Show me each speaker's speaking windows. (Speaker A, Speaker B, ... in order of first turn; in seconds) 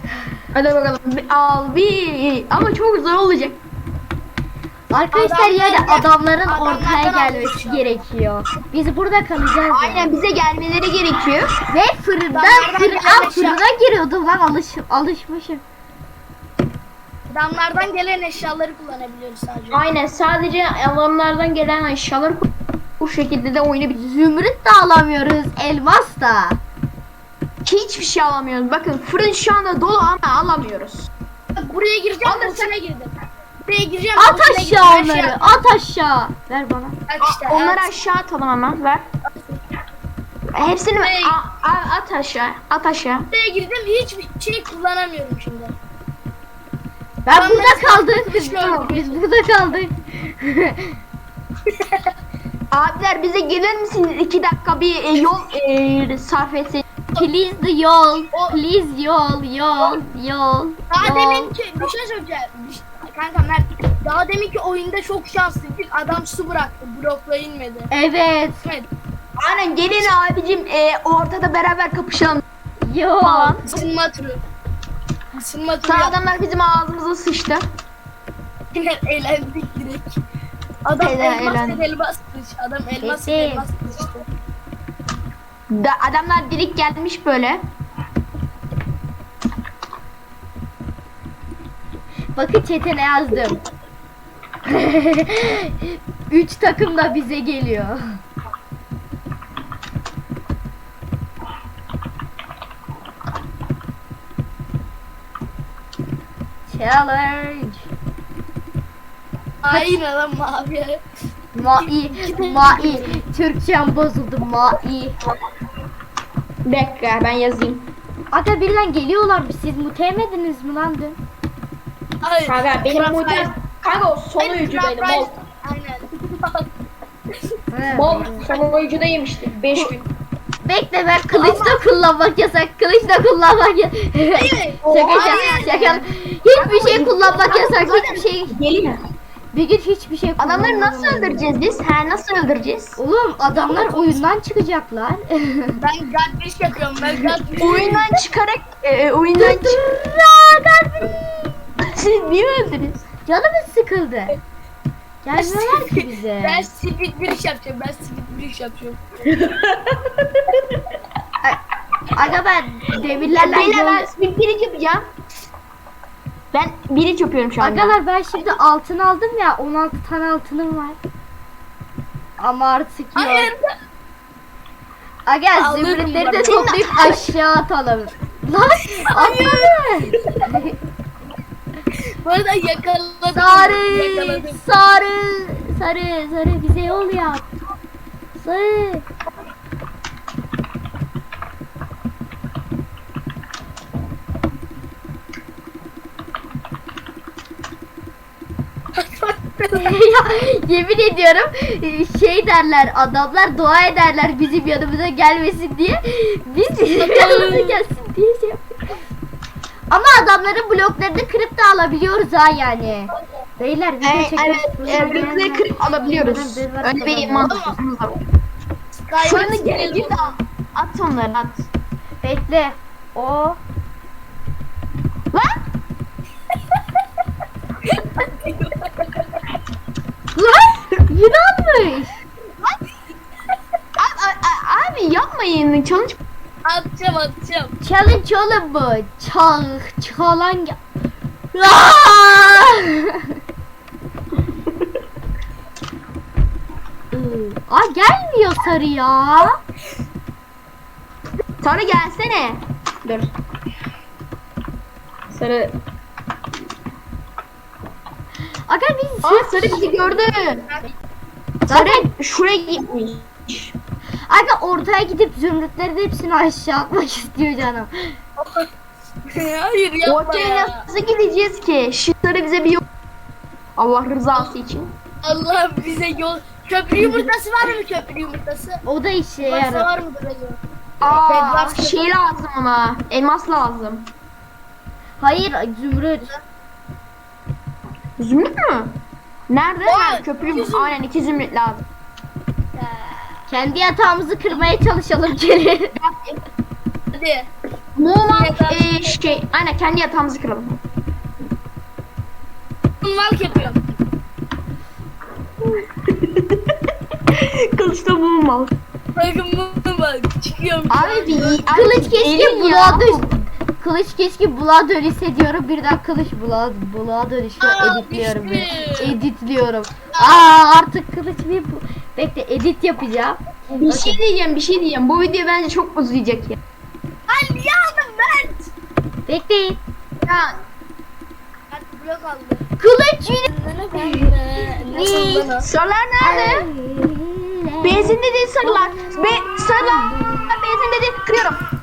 Speaker A: 0.5-3.6, 9.7-11.5, 19.7-22.5, 23.0-24.0, 27.6-31.1, 32.2-32.7, 37.2-39.0, 40.5-43.3, 52.7-56.8, 69.4-72.4, 73.2-73.6, 75.8-77.6, 81.0-81.8, 85.7-87.7, 116.7-117.9, 122.5-125.3, 127.9-130.1, 131.3-131.8, 134.8-135.7, 136.5-139.0, 140.4-143.0, 147.6-149.8, 151.8-153.0, 159.3-160.6, 163.3-165.1, 166.5-168.0, 176.4-177.3, 214.0-218.2, 219.2-221.7, 230.3-231.0, 234.0-236.2, 251.6-253.3, 255.3-255.8, 259.2-260.7, 261.7-263.7, 270.0-272.8, 273.8-274.9, 281.0-284.1, 288.2-291.8, 296.0-296.4, 297.9-300.8, 306.1-306.7, 307.3-308.7, 310.9-313.3, 323.7-326.6, 330.2-330.6, 335.6-336.7, 337.8-341.6
Speaker B: 4.9-10.1, 11.7-15.6, 23.9-26.6, 34.2-37.0, 47.2-51.0, 57.1-61.6, 67.9-68.6, 72.8-73.8, 83.0-83.7, 92.3-93.6, 94.7-98.2, 106.7-107.9, 109.7-110.0, 111.5-115.2, 118.3-121.2, 127.7-128.5, 130.6-138.6, 139.5-141.4, 143.0-145.8, 149.4-151.6, 153.2-154.4, 155.2-156.7, 162.1-164.1, 167.6-171.0, 172.4-173.5, 175.2-180.7, 183.3-187.4, 188.3-189.1, 199.7-208.8, 209.9-217.6, 222.2-223.6, 231.1-232.2, 237.8-240.8, 241.5-243.3, 247.1-249.5, 258.7-259.9, 261.7-262.1, 264.3-268.1, 278.9-279.9, 285.2-286.3, 293.5-295.9, 311.7-324.2, 329.2-329.8, 332.8-334.3, 334.9-335.5, 336.2-340.5
Speaker C: 5.1-8.0, 12.3-13.6, 17.3-19.8, 31.6-33.1, 33.6-35.6, 37.1-37.9, 39.3-39.6, 41.0-41.4, 43.3-45.7, 47.3-49.2, 51.7-52.1, 58.3-58.6, 60.9-67.9, 68.6-68.9, 73.6-74.4, 75.3-76.2, 78.7-80.2, 80.8-84.3, 109.6-111.0, 111.8-113.2, 122.2-123.5, 124.4-126.7, 134.3-136.1, 143.6-144.2, 145.8-148.0, 155.3-159.0, 173.2-173.7, 175.6-176.7, 178.9-180.5, 182.2-184.6, 198.9-199.9, 207.0-207.8, 217.4-217.8, 219.1-220.3, 227.9-229.2, 236.6-237.7, 268.4-268.7, 269.2-270.8, 275.2-278.8, 279.4-282.0, 289.8-291.0, 292.7-293.3, 297.1-297.5, 298.2-299.1, 303.0-304.0, 309.1-311.8, 317.6-319.2, 320.1-320.6, 327.3-328.7, 331.7-332.6, 333.4-335.7